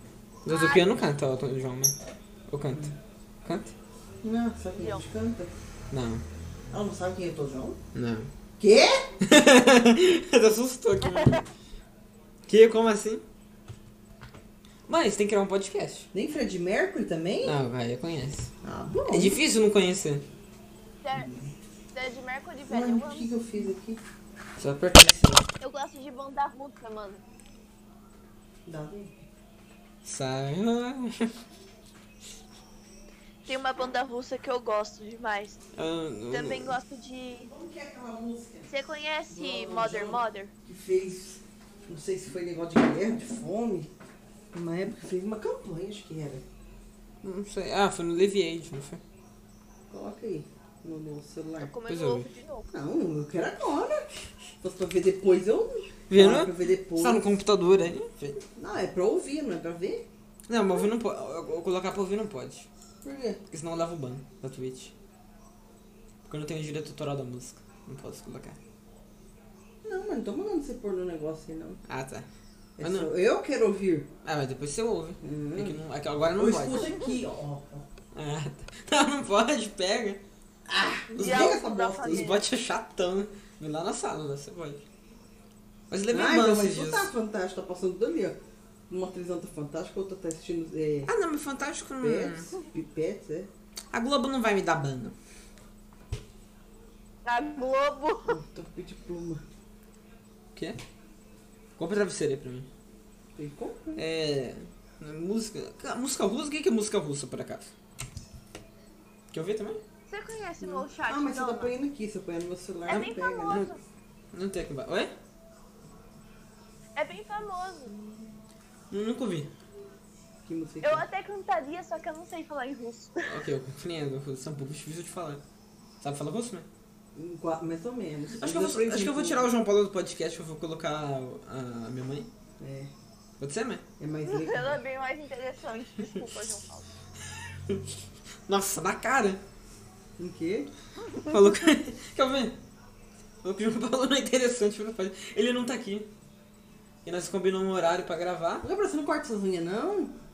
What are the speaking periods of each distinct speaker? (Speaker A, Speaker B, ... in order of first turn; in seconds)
Speaker A: 0.4-1.9, 2.5-2.9, 3.4-3.7, 5.9-6.2, 7.9-8.3, 9.2-11.4, 12.5-13.2, 14.9-16.1, 17.4-18.5, 19.1-20.2, 24.6-25.5, 30.0-31.4, 35.7-36.7, 47.2-49.0, 51.9-52.3, 56.1-58.4, 60.5-62.7, 63.5-64.9, 66.2-68.6, 71.9-72.3, 72.8-73.1, 74.2-77.0, 78.1-80.2, 81.2-84.8, 85.9-87.1, 91.1-92.5, 93.9-95.1, 100.5-100.8, 101.8-102.7, 104.0-107.7, 109.3-109.8, 113.0-113.7, 114.3-115.1, 118.9-119.5, 123.2-125.4, 126.0-126.7, 128.4-132.3, 133.4-133.8, 138.5-139.4, 141.2-142.6, 143.4-146.1, 147.0-148.7
Speaker B: 0.5-0.9, 4.7-5.0, 11.0-11.4, 21.0-21.3, 21.9-23.3, 25.6-27.2, 33.5-35.6, 36.3-37.5, 38.7-40.5, 51.6-52.7, 81.1-82.4, 97.2-98.4, 110.1-111.7, 112.9-113.8, 117.0-117.9, 120.8-123.4, 134.3-136.9
Speaker C: 4.2-5.5, 6.7-7.8, 8.6-9.1, 16.1-17.6, 18.6-19.4, 21.1-21.5, 22.7-24.0, 28.6-29.1, 37.5-38.7, 39.3-43.9, 44.5-46.4, 49.9-51.7, 52.7-54.0, 54.6-57.3, 58.5-60.1, 63.0-63.4, 69.8-71.8, 72.8-74.1, 75.2-75.8, 76.3-77.8, 80.7-82.3, 86.1-88.3, 88.9-91.1, 92.0-93.5, 98.3-99.4, 103.3-104.0, 110.6-113.7, 118.0-118.2, 120.5-121.0, 127.1-129.5, 132.6-132.9, 134.0-134.8, 140.2-140.7, 148.6-150.1